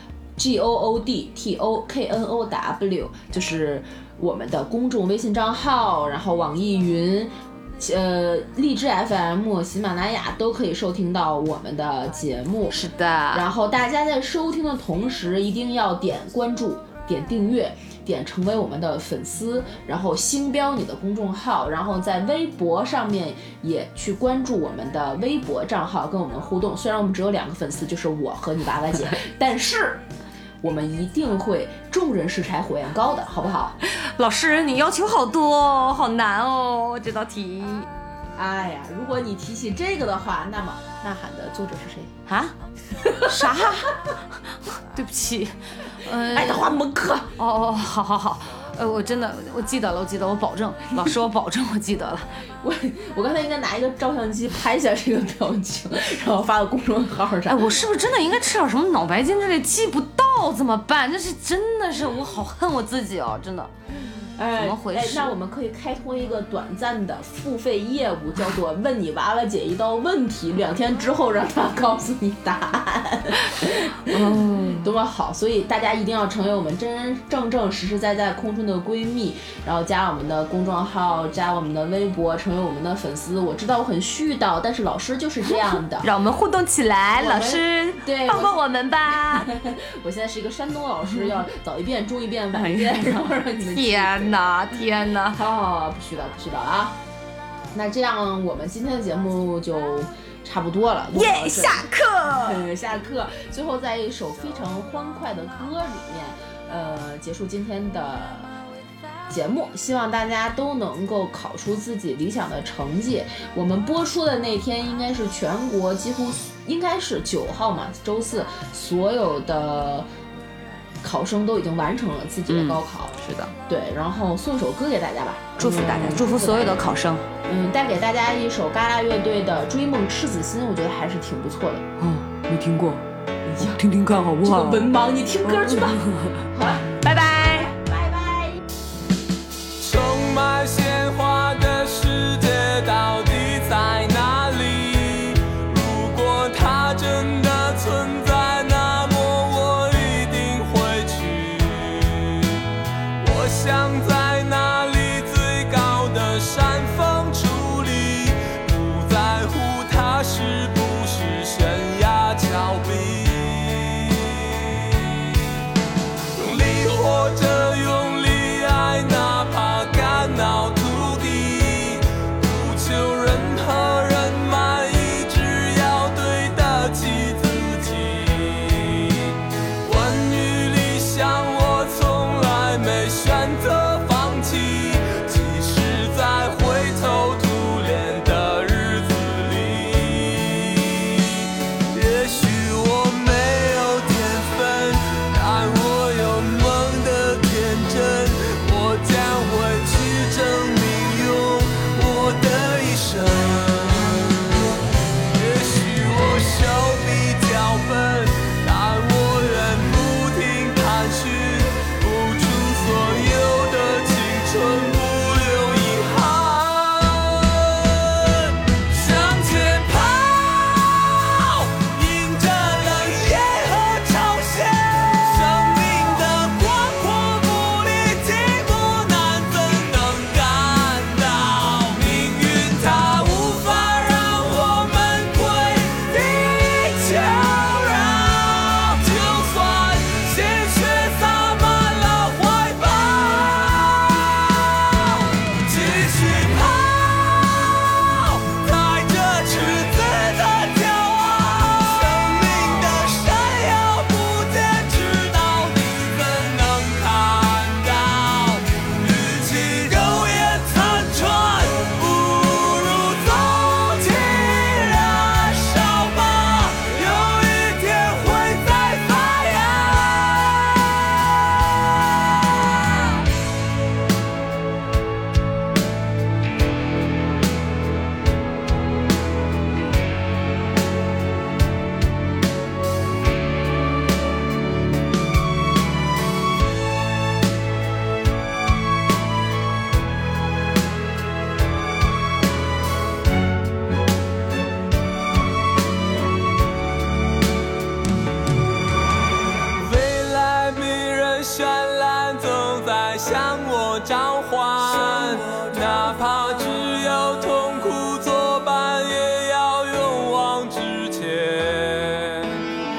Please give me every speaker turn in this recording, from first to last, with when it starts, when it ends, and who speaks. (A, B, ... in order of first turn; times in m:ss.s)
0:00.4-0:12.8 A
0:12.7-0:13.5 B
0:13.3-0:30.0 A
0:30.6-0:33.8 A
0:33.8-0:37.9 B
0:38.4-0:42.2 A
0:42.3-0:42.6 B
0:43.0-0:43.7 A
0:43.1-0:44.1 B
0:44.9-0:46.8 B
0:46.2-0:47.3 A
0:47.4-0:52.4 B
0:52.6-0:57.8 A
0:57.5-1:03.7 B
1:04.2-1:26.1 A
1:04.6-1:05.4 B
1:13.5-1:14.9 B
1:25.5-1:29.5 B
1:27.2-1:34.8 A
1:32.5-1:35.4 B
1:35.3-1:37.0 A
1:37.7-1:48.5 A
1:41.1-1:42.6 B
1:49.3-2:00.1 A
2:01.0-2:06.9 A
2:02.5-2:03.5 B
2:05.6-2:07.2 B
2:07.4-2:11.8 A
2:12.0-2:13.0 B
2:13.4-2:13.8 A
2:13.6-2:14.9 B
2:14.4-2:18.6 A
2:15.4-2:16.5 B
2:17.0-2:17.7 B
2:19.8-2:32.7 C
2:33.2-2:45.5 C
2:46.4-3:24.5 C
3:25.3-4:31.1 C
4:59.8-5:12.7 C